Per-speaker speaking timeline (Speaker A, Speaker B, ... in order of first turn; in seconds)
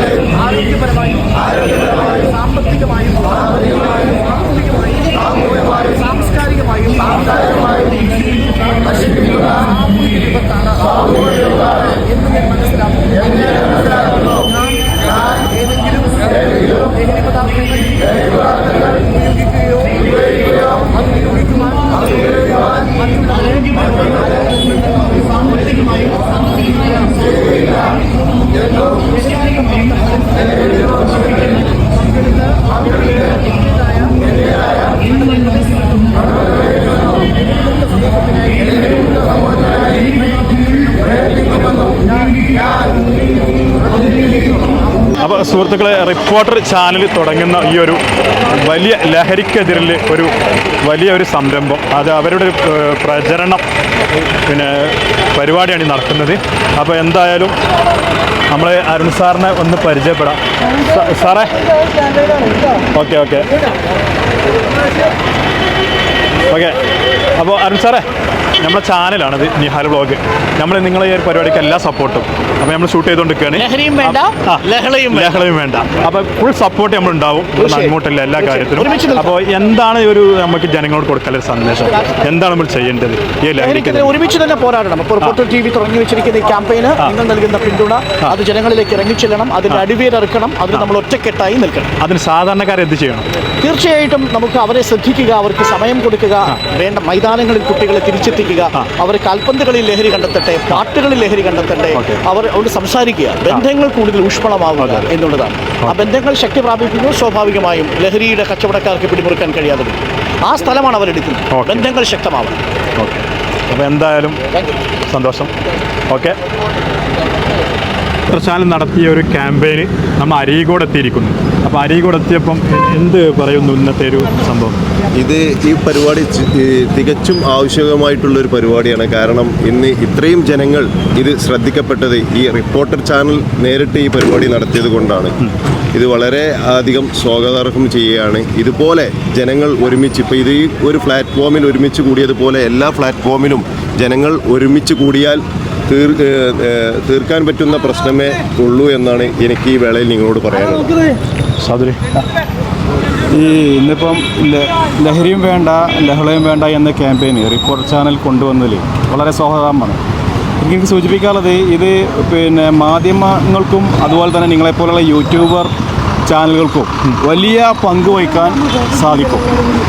Speaker A: 2.7-3.1, 6.0-7.0, 73.5-75.5, 77.5-79.3, 83.6-91.9, 93.6-112.6
Speaker B: 45.2-53.6, 54.5-57.5, 58.5-61.5, 62.9-63.5, 66.5-66.8, 67.4-68.0, 68.6-84.1, 92.0-93.3, 101.9-102.2, 104.8-105.1, 105.8-106.1, 111.5-111.9, 113.0-114.4, 115.1-115.5, 116.1-116.4, 118.3-124.8, 151.6-152.0
Speaker C: 125.2-135.4, 135.9-150.9
Speaker D: 153.3-160.0, 160.6-165.7, 166.3-169.5